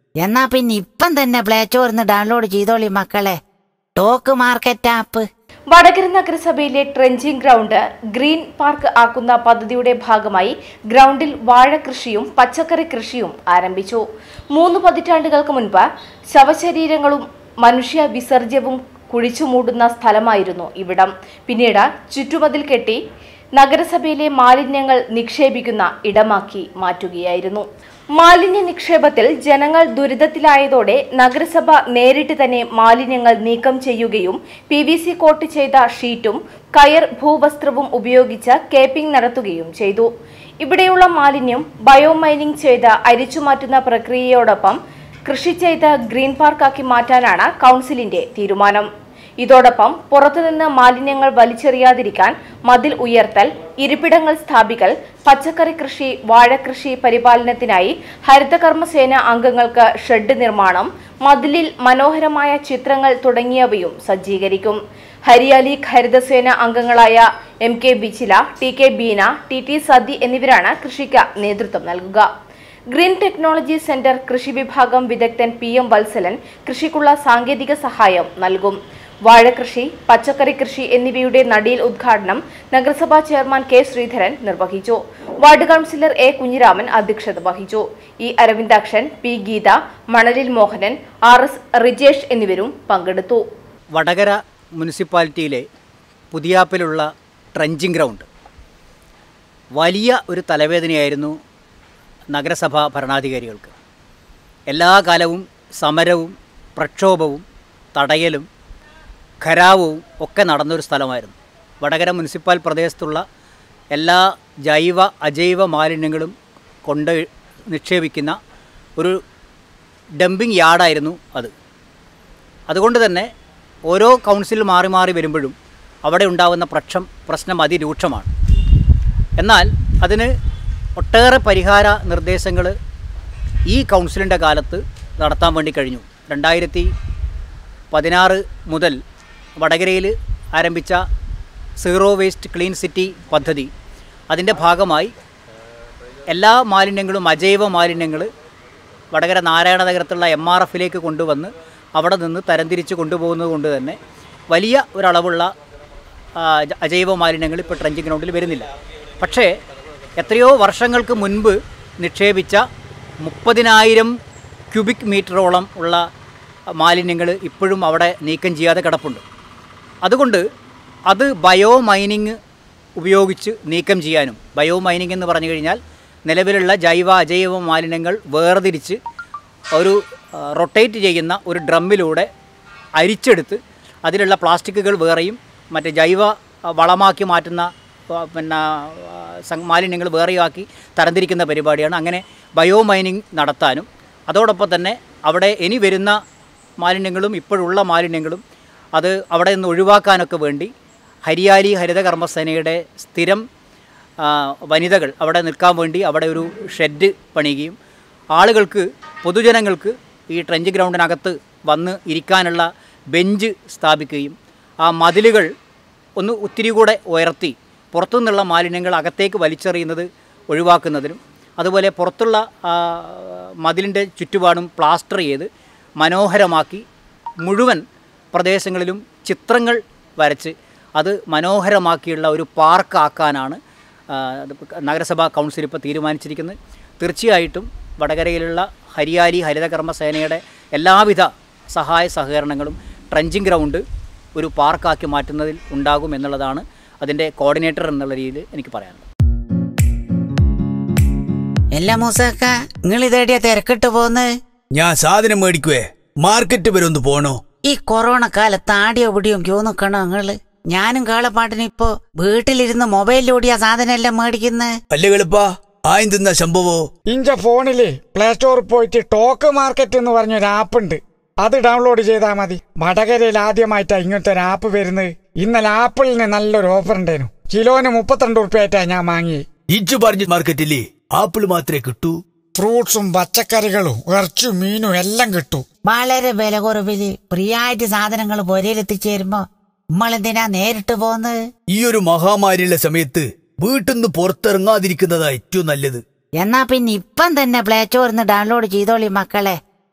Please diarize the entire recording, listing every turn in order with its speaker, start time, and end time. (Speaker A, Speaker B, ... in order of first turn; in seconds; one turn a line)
Speaker A: 0.3-3.3
Speaker A: 4.0-5.2
Speaker B: 5.7-23.0
Speaker B: 23.6-40.1
Speaker B: 40.6-48.9
Speaker B: 49.4-72.3
Speaker B: 72.9-93.4
Speaker C: 93.9-95.7
Speaker C: 96.3-98.3
Speaker C: 99.8-101.3
Speaker C: 102.3-103.7
Speaker C: 104.7-107.4
Speaker C: 108.0-108.5
Speaker C: 109.4-113.2
Speaker C: 113.9-116.3
Speaker C: 116.9-118.4
Speaker C: 120.2-121.5
Speaker C: 122.7-123.3
Speaker C: 123.9-125.5
Speaker C: 126.0-128.3
Speaker C: 129.4-130.3
Speaker C: 130.9-132.7
Speaker C: 133.7-136.9
Speaker C: 137.9-138.9
Speaker C: 139.6-141.0
Speaker C: 141.8-143.7
Speaker C: 144.3-145.1
Speaker C: 146.3-148.3
Speaker C: 149.1-154.0
Speaker C: 154.5-155.5
Speaker C: 156.4-158.7
Speaker C: 159.2-159.5
Speaker C: 160.2-162.6
Speaker C: 163.2-164.1
Speaker C: 164.7-166.0
Speaker C: 166.8-169.2
Speaker C: 170.0-170.4
Speaker C: 171.1-172.4
Speaker C: 173.0-179.0
Speaker C: 180.5-182.3
Speaker C: 183.0-196.2
Speaker C: 196.8-198.4
Speaker C: 198.9-200.7
Speaker C: 201.2-203.4
Speaker C: 204.2-207.7
Speaker C: 208.3-215.5
Speaker C: 216.2-225.5
Speaker C: 226.0-226.8
Speaker C: 227.4-233.6
Speaker C: 234.1-243.8
Speaker C: 244.3-249.0
Speaker A: 251.7-254.3
Speaker D: 254.7-257.4
Speaker A: 257.7-264.7
Speaker D: 264.9-266.8
Speaker E: 267.1-279.4
Speaker D: 279.7-282.1
Speaker E: 282.6-285.6
Speaker A: 285.9-289.4
Speaker A: 289.9-291.4
Speaker D: 291.7-296.0
Speaker A: 296.4-299.6